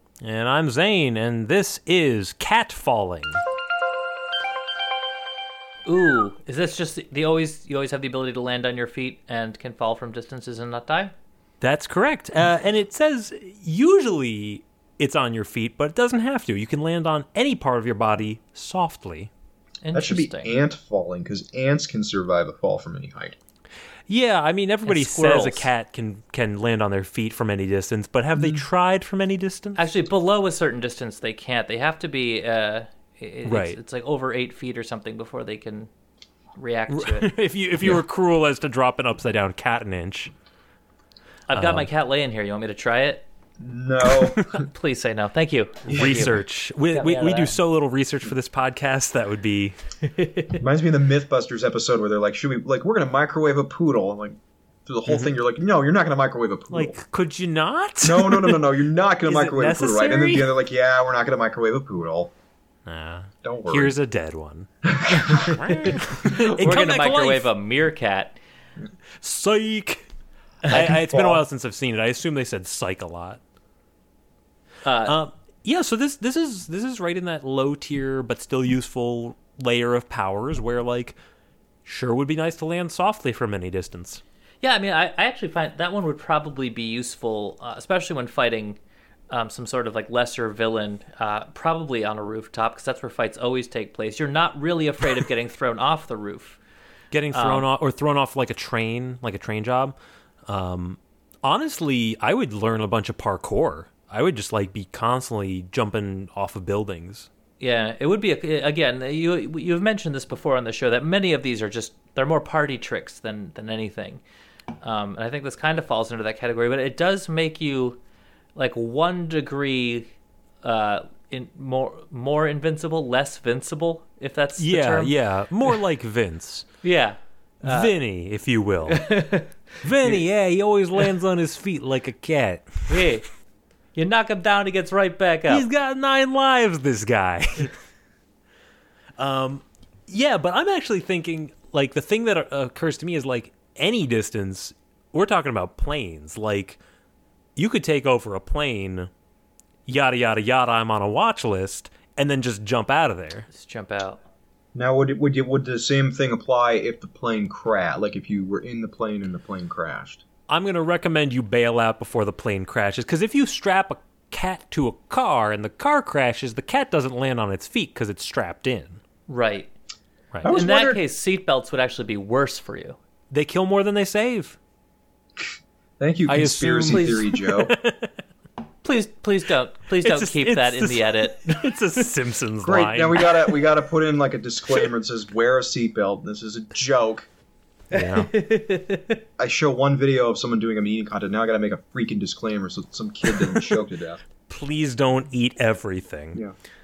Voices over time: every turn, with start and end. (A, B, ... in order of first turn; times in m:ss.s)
0:00.2-0:03.4 A
0:05.8-0:11.1 B
0:11.6-0:19.3 A
0:19.8-0:20.6 B
0:19.9-0:23.4 C
0:24.1-0:29.8 A
0:24.8-0:25.7 B
0:29.8-0:35.9 B
0:33.4-0:33.8 A
0:36.6-0:37.3 B
0:36.9-0:40.3 A
0:41.5-0:43.2 B
0:41.5-0:41.9 A
0:43.6-0:44.6 C
0:44.4-0:47.6 B
0:45.9-0:49.7 A
0:45.9-0:46.3 C
0:50.0-0:50.6 B
0:50.6-0:57.0 C
0:55.0-0:55.3 A
0:56.7-0:58.7 A
0:58.0-1:02.3 C
0:59.2-1:00.5 A
1:02.8-1:04.7 A
1:03.4-1:03.9 C
1:04.8-1:06.4 C
1:05.2-1:07.5 A
1:05.3-1:08.4 B
1:09.2-1:10.0 A
1:10.6-1:13.4 A
1:10.7-1:11.4 C
1:14.8-1:15.2 B
1:15.0-1:21.2 A
1:21.8-1:24.2 A
1:24.6-1:28.8 B
1:29.3-1:36.6 B
1:37.1-1:39.9 A
1:37.3-1:37.7 B
1:40.5-1:47.3 A
1:47.6-1:54.2 B
1:54.8-1:58.0 B
1:58.6-2:00.1 B
2:00.6-2:05.8 B
2:04.6-2:06.7 A
2:06.8-2:07.9 B
2:07.6-2:09.1 A
2:08.9-2:10.2 B
2:09.8-2:13.0 A
2:12.9-2:13.2 B
2:13.9-2:15.7 B
2:15.5-2:17.7 A
2:19.2-2:26.8 A
2:27.6-2:29.1 A
2:29.9-2:33.5 A
2:33.5-2:34.2 B
2:34.7-2:40.2 C
2:40.5-2:49.0 A
2:49.3-2:49.7 B
2:50.4-2:51.0 C
2:50.4-2:53.0 B
2:53.3-2:54.6 A
2:56.0-2:57.8 C
2:56.3-2:58.1 A
2:56.9-2:57.3 B
2:58.8-3:01.8 B
3:00.0-3:03.2 A
3:02.6-3:07.3 C
3:07.9-3:08.3 A
3:07.9-3:09.2 B
3:09.4-3:14.2 C
3:14.5-3:16.4 A